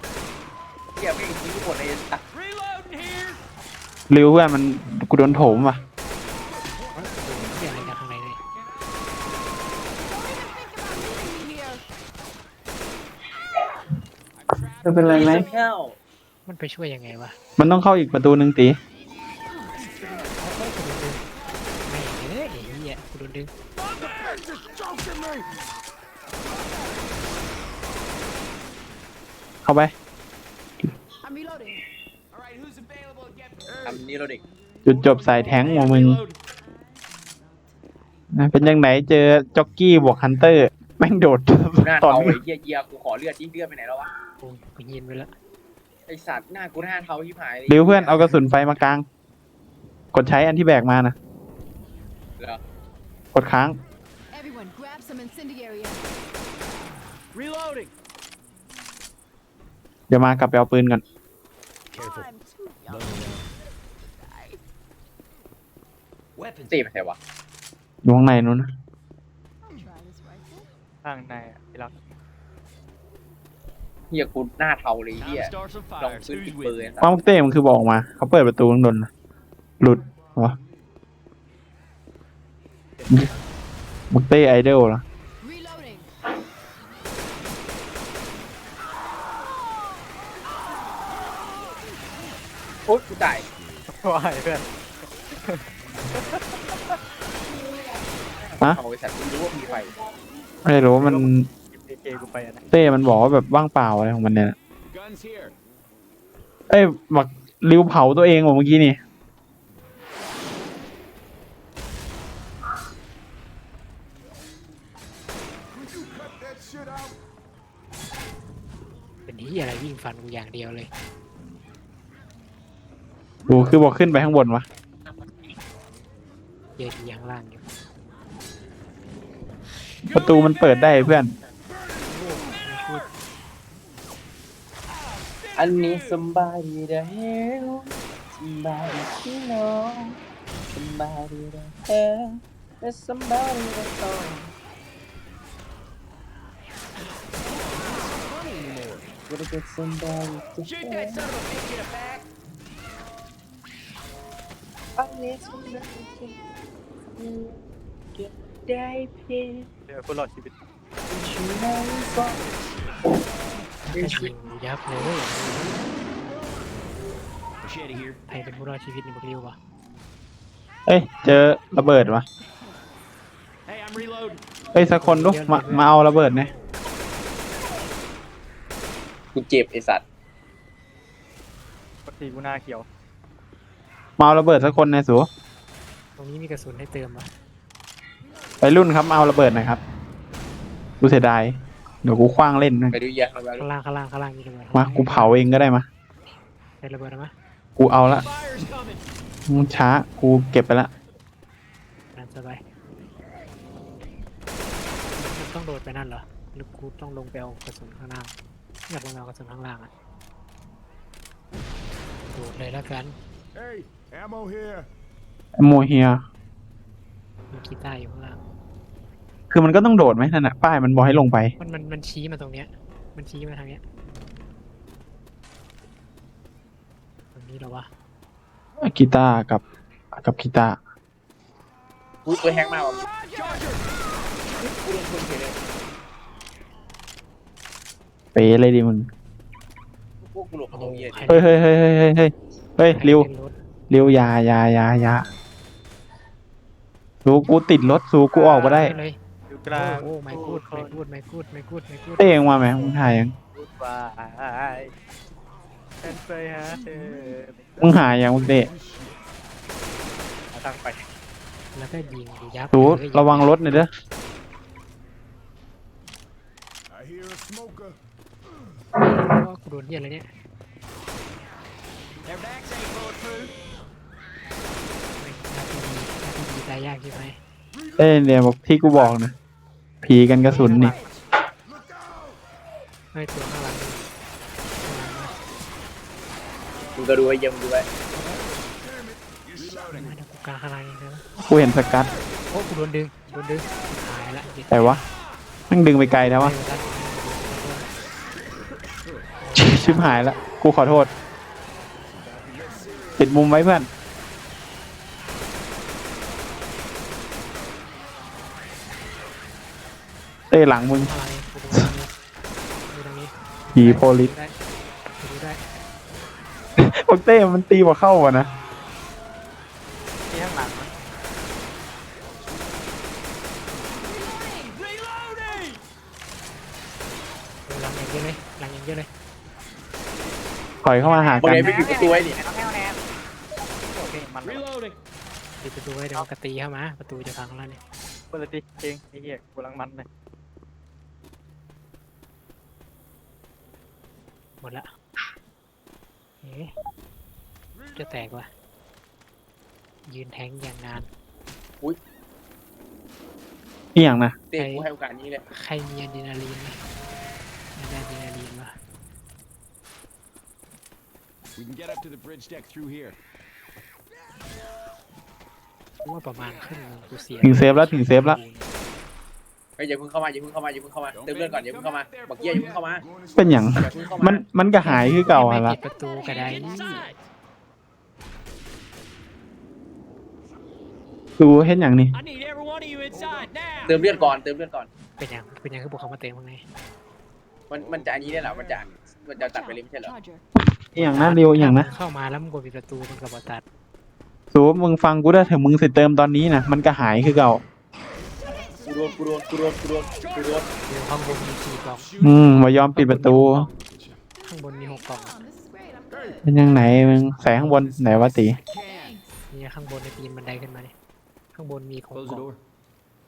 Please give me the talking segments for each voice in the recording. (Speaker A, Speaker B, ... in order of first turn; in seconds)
Speaker A: 0.9-2.2, 15.0-16.0, 33.9-34.4, 41.8-44.1, 46.1-48.4, 66.7-67.2, 74.1-77.1, 92.9-93.5, 98.4-100.0, 135.6-140.2, 140.7-144.5, 149.3-151.2, 155.0-156.3, 157.1-157.5, 158.2-159.7, 161.1-162.5, 163.9-164.3, 179.3-180.0, 192.9-193.7, 232.2-233.1, 234.6-235.6, 240.2-241.5, 286.9-287.9, 331.4-332.4, 354.5-355.4, 369.8-373.1, 373.7-374.4, 383.9-384.9, 387.7-390.1, 398.8-400.7
Speaker B: 2.3-3.4, 14.8-15.5, 32.3-33.9, 35.0-36.4, 57.3-57.9, 62.9-63.5, 66.3-66.9, 75.2-77.0, 147.5-149.1, 150.6-152.3, 167.6-168.2, 173.7-174.4, 198.1-199.0, 233.3-233.8, 272.2-273.5, 324.8-325.8, 334.4-335.0, 376.2-377.2, 382.1-384.0, 400.2-400.7, 402.0-402.4, 407.5-409.2, 412.1-412.6
Speaker C: 4.1-5.8, 14.8-15.5, 17.6-18.8, 29.6-29.9, 34.9-36.2, 38.3-42.4, 47.7-49.0, 50.1-51.1, 53.3-53.8, 60.1-61.0, 68.0-68.7, 77.0-79.1, 79.8-80.5, 84.1-85.0, 100.6-101.5, 102.7-104.5, 106.7-109.0, 123.5-124.7, 130.1-131.3, 170.9-172.2, 174.7-176.5, 184.2-185.3, 188.6-189.8, 191.0-193.0, 194.7-195.9, 197.8-198.2, 199.5-200.9, 215.6-216.2, 219.5-221.5, 228.8-229.6, 230.1-230.8, 238.3-239.1, 241.3-243.3, 243.9-245.2, 247.2-248.9, 252.2-253.3, 257.8-258.7, 262.7-263.9, 278.0-279.3, 280.0-280.9, 291.4-292.1, 294.7-295.0, 295.7-296.5, 299.6-301.1, 303.2-303.9, 310.5-311.1, 313.7-314.3, 316.8-318.5, 330.8-331.8, 353.9-354.4, 367.4-368.4, 373.4-375.8, 381.4-382.1, 390.8-391.9, 394.5-397.6, 402.2-403.7, 406.4-408.6
Speaker D: 6.9-7.7, 14.4-15.0, 25.1-25.4, 62.9-63.4, 93.6-93.9, 96.0-96.4, 104.8-105.5, 115.7-117.2, 176.1-176.5, 213.5-214.9, 258.3-259.2, 266.9-268.0, 289.5-290.2, 299.0-299.3, 302.1-303.2, 322.5-322.7, 361.6-363.2, 367.1-367.4, 371.1-374.3, 383.1-384.4, 387.8-388.8, 401.9-402.5, 403.8-404.2, 406.2-407.4
Speaker E: 6.9-8.4, 16.5-17.4, 20.4-21.2, 21.8-23.5, 44.4-45.3, 119.3-120.9, 126.8-127.6, 132.1-133.1, 163.8-165.8, 168.3-169.6, 175.0-175.9, 186.2-187.3, 193.6-195.7, 196.8-197.3, 202.1-202.6, 205.1-208.3, 208.9-209.9, 212.2-213.2, 217.5-218.4, 221.6-223.8, 227.3-227.9, 240.7-241.5, 243.0-243.5, 248.5-249.2, 249.7-252.5, 261.8-263.6, 269.0-270.3, 275.2-277.4, 280.5-281.1, 283.1-284.1, 284.8-285.4, 289.9-291.2, 292.5-295.0, 296.2-297.9, 299.4-300.2, 311.0-312.1, 312.9-314.5, 315.2-315.6, 327.7-329.1, 331.0-331.4, 335.6-337.8, 344.6-344.9, 346.4-346.7, 347.9-348.5, 350.1-351.1, 354.5-354.9, 355.5-356.8, 357.8-358.7, 366.0-368.7, 374.8-377.1, 385.2-386.6, 391.0-393.6, 400.9-402.1, 402.9-403.7, 404.5-405.4, 409.5-410.9, 411.5-412.5
Speaker F: 9.9-11.9, 19.5-20.4, 21.5-21.8, 31.2-31.8, 33.6-35.9, 36.5-38.3, 54.3-56.2, 61.9-63.5, 64.0-64.6, 69.6-70.7, 85.4-86.1, 280.5-281.2, 324.0-324.8, 375.6-377.2, 389.3-390.4, 391.5-392.0, 398.4-400.7, 404.3-406.8, 408.7-409.5
Speaker G: 71.0-71.9, 83.0-83.5, 93.9-94.7, 95.4-96.6, 100.9-102.7, 159.9-160.5, 182.1-182.8, 248.3-251.0, 253.5-254.9, 256.0-258.0, 260.5-261.0, 302.2-302.6, 320.3-320.9, 331.4-333.0, 333.9-334.7, 338.3-340.1